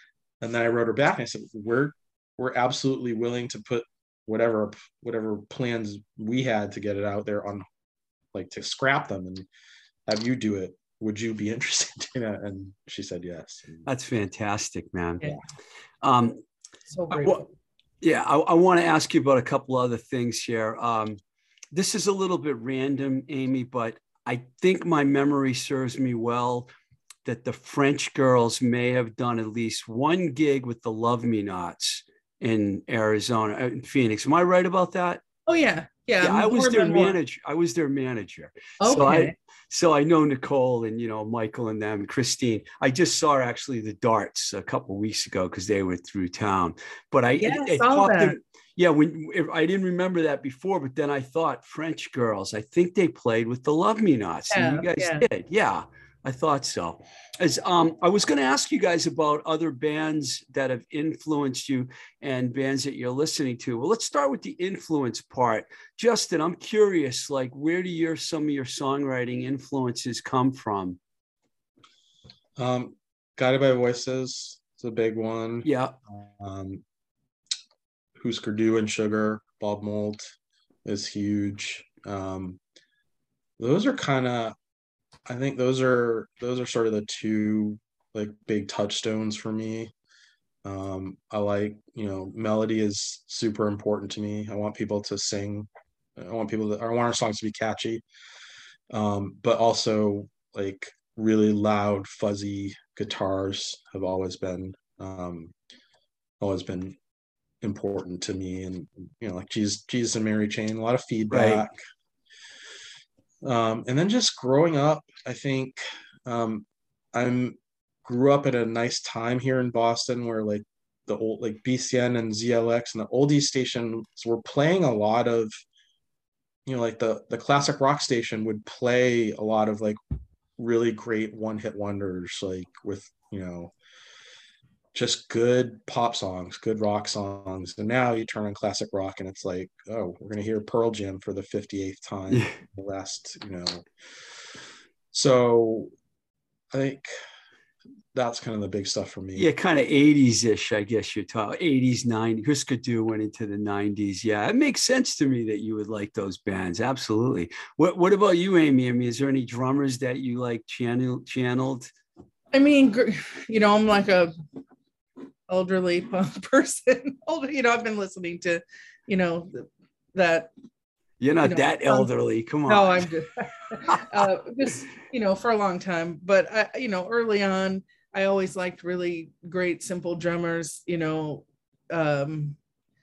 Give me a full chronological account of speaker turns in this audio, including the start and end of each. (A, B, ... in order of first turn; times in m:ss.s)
0:00.4-0:07.6 A
0:08.3-0:09.5 A
0:10.1-0:13.8 A
0:13.8-0:15.4 B
0:16.0-0:16.4 B
0:16.9-0:17.4 C
0:17.1-0:17.4 B
0:18.0-0:21.2 B
0:21.7-0:26.7 B
0:27.2-0:35.2 B
0:35.5-0:37.2 C
0:36.2-1:11.0 B
0:38.8-0:39.3 C
0:47.4-0:48.4 C
0:54.5-0:55.2 C
1:12.6-1:15.7 A
1:15.6-1:15.9 B
1:16.2-1:16.8 A
1:18.2-1:20.3 A
1:20.8-1:22.6 A
1:23.6-1:24.6 A
1:25.3-1:29.9 A
1:30.6-1:38.0 A
1:38.9-1:45.5 A
1:46.4-1:47.0 A
1:47.6-1:51.8 A
1:51.3-1:51.6 B
1:53.4-2:05.5 A
2:06.6-2:10.0 A
2:10.6-2:13.7 A
2:14.9-2:23.8 A
2:22.3-2:22.6 B
2:25.1-2:25.9 A
2:26.7-2:27.1 A
2:28.1-2:29.5 A
2:29.4-2:41.9 B
2:42.5-2:44.3 C
2:45.5-2:50.5 C
2:51.2-2:53.1 B
2:51.4-2:52.1 C
2:52.7-3:02.6 C